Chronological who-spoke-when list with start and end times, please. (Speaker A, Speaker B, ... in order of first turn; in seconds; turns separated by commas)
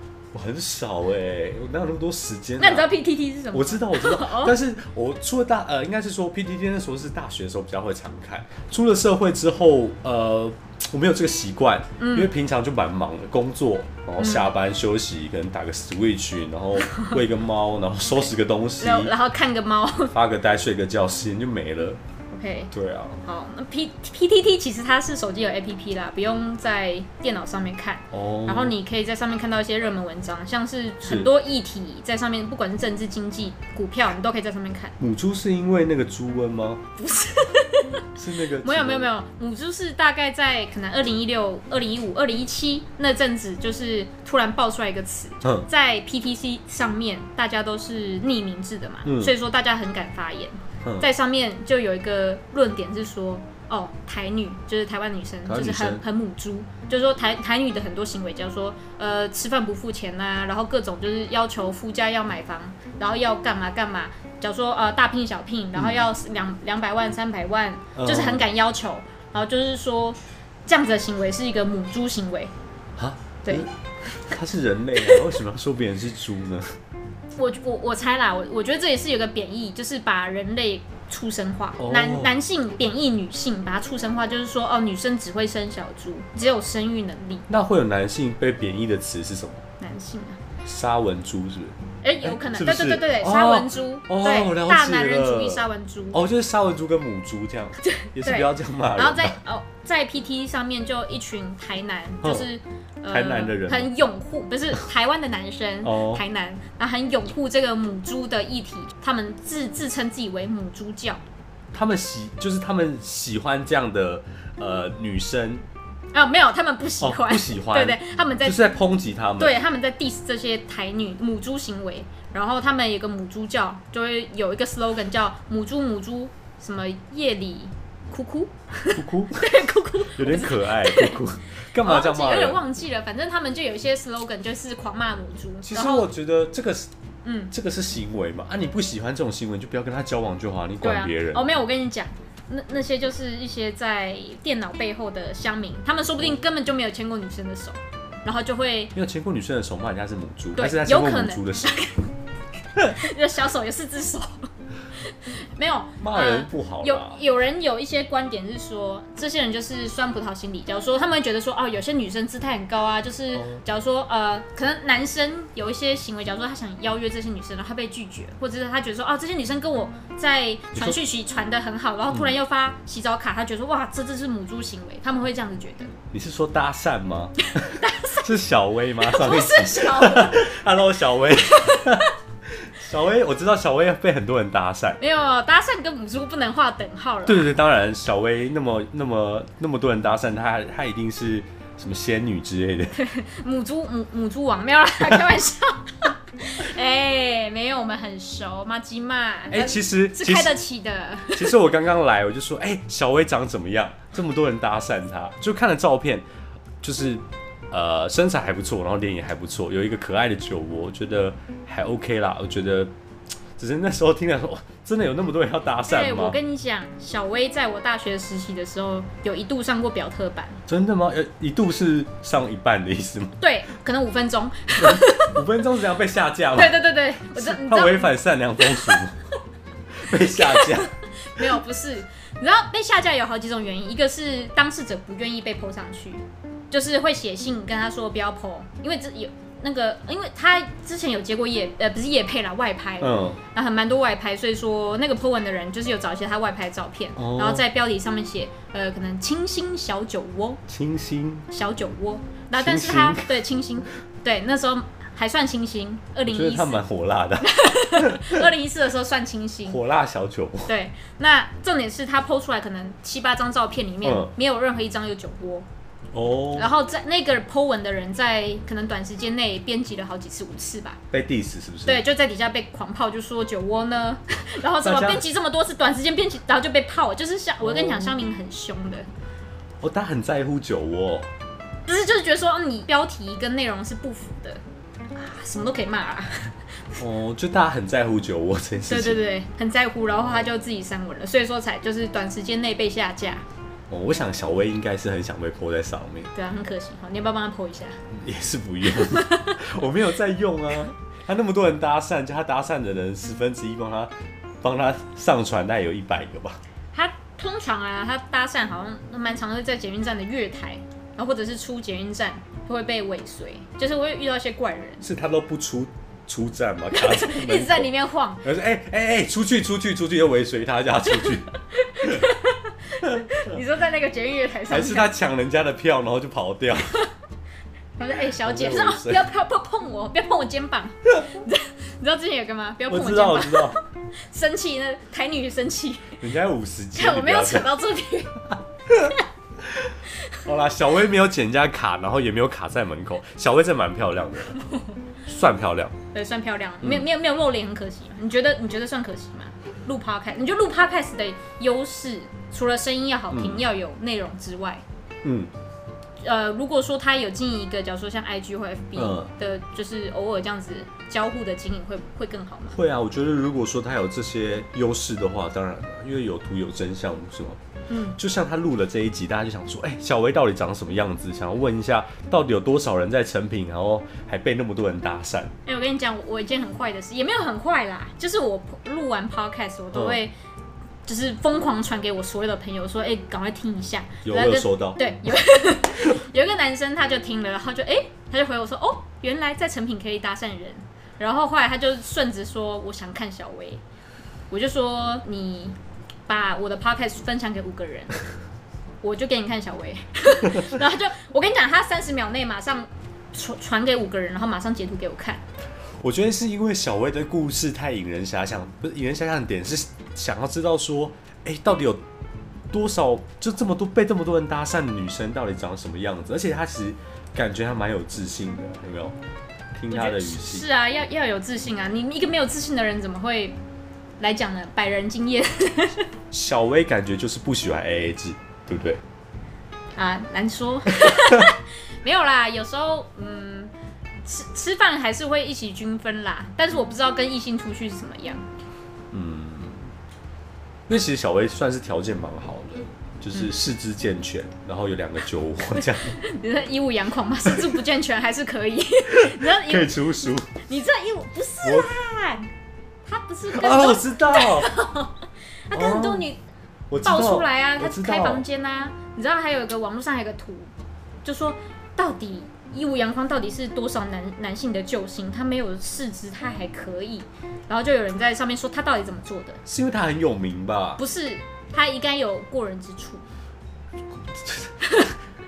Speaker A: 0.3-2.9, Speaker B: 2.6-4.5, Speaker A: 3.5-19.1, Speaker B: 12.0-12.3, Speaker B: 14.2-14.4, Speaker B: 16.8-17.1, Speaker B: 18.8-20.1, Speaker A: 20.1-22.0, Speaker B: 22.3-22.7, Speaker A: 22.7-23.2, Speaker B: 23.2-35.0, Speaker A: 28.1-28.8, Speaker A: 31.0-31.3, Speaker A: 35.0-36.8, Speaker B: 37.0-72.5, Speaker A: 38.1-39.1, Speaker A: 45.4-45.7, Speaker A: 49.0-49.3, Speaker A: 55.5-56.0, Speaker A: 65.7-66.0, Speaker A: 68.0-68.4, Speaker A: 73.0-76.8, Speaker B: 77.3-87.4, Speaker A: 81.8-82.3, Speaker A: 87.5-89.6, Speaker B: 89.8-90.4, Speaker A: 90.6-99.3, Speaker B: 92.0-96.2, Speaker B: 97.8-111.2, Speaker A: 103.1-103.9, Speaker A: 105.8-106.2, Speaker A: 111.7-115.6, Speaker B: 116.1-118.6, Speaker A: 117.0-119.5, Speaker B: 119.4-131.2, Speaker A: 128.9-132.6, Speaker B: 131.8-136.1, Speaker A: 135.6-136.9, Speaker B: 137.2-137.5, Speaker A: 137.5-141.5, Speaker B: 140.8-148.9, Speaker A: 148.9-151.9, Speaker B: 150.6-152.0, Speaker B: 152.8-154.5, Speaker B: 155.0-175.9, Speaker A: 156.0-157.2, Speaker A: 163.3-163.6, Speaker A: 176.1-185.0, Speaker B: 177.6-178.3, Speaker B: 179.0-180.5, Speaker B: 181.5-182.1, Speaker B: 185.0-187.5, Speaker A: 187.2-193.0, Speaker B: 192.9-201.6, Speaker A: 199.5-200.6, Speaker A: 201.3-206.3, Speaker A: 206.8-212.9, Speaker A: 213.6-216.4, Speaker B: 215.8-220.6, Speaker A: 220.7-223.3, Speaker B: 223.4-225.4, Speaker A: 224.8-226.8, Speaker B: 226.5-229.0, Speaker A: 227.3-229.2, Speaker A: 229.9-231.4, Speaker B: 230.1-250.6, Speaker A: 243.0-243.4, Speaker A: 247.2-247.6, Speaker A: 250.7-251.5, Speaker B: 251.5-256.8, Speaker A: 252.5-253.3, Speaker A: 256.3-258.5, Speaker B: 257.4-259.8, Speaker A: 259.6-260.7, Speaker B: 260.7-265.6, Speaker A: 264.0-264.3, Speaker A: 266.1-266.7, Speaker B: 266.5-271.0, Speaker A: 271.1-272.0, Speaker B: 271.8-279.1, Speaker A: 274.8-275.3, Speaker A: 277.6-278.1, Speaker A: 279.8-281.3, Speaker B: 281.9-284.6, Speaker B: 285.1-287.0, Speaker A: 287.0-289.2, Speaker B: 288.9-293.4, Speaker A: 293.9-296.3, Speaker B: 296.3-298.0, Speaker A: 298.1-306.6, Speaker B: 298.9-299.6, Speaker B: 306.9-315.0, Speaker A: 315.0-317.9, Speaker B: 316.9-318.4, Speaker A: 318.4-321.5, Speaker B: 321.2-325.1, Speaker A: 323.1-323.6, Speaker A: 324.7-327.0, Speaker B: 328.0-336.2, Speaker A: 328.1-329.2, Speaker A: 332.9-333.8, Speaker A: 336.2-337.8, Speaker B: 336.9-338.5, Speaker A: 339.6-344.6, Speaker A: 345.2-345.9, Speaker B: 346.1-354.8, Speaker A: 353.3-353.6, Speaker A: 355.2-355.5, Speaker B: 356.2-362.8, Speaker A: 358.9-359.3, Speaker A: 362.7-367.6, Speaker B: 367.9-368.2, Speaker A: 368.2-375.5, Speaker B: 375.6-380.3, Speaker A: 379.9-380.2, Speaker B: 381.1-393.8, Speaker A: 384.2-385.0, Speaker B: 394.5-395.7, Speaker B: 396.3-398.2, Speaker B: 399.0-405.4, Speaker A: 406.0-412.0, Speaker A: 412.7-419.1, Speaker A: 419.8-420.6, Speaker B: 419.9-423.6, Speaker B: 424.2-426.1, Speaker A: 426.3-429.0, Speaker B: 429.9-433.7, Speaker A: 431.0-431.5, Speaker B: 434.2-438.4, Speaker A: 439.1-439.9, Speaker A: 440.9-446.1, Speaker B: 446.0-452.5, Speaker A: 449.1-450.6, Speaker A: 451.6-452.0, Speaker B: 453.0-456.4, Speaker A: 453.5-454.7, Speaker A: 455.7-456.3, Speaker A: 456.9-458.4, Speaker B: 457.0-460.7, Speaker B: 461.2-469.6, Speaker A: 469.6-471.0, Speaker B: 471.0-473.2, Speaker A: 474.2-474.9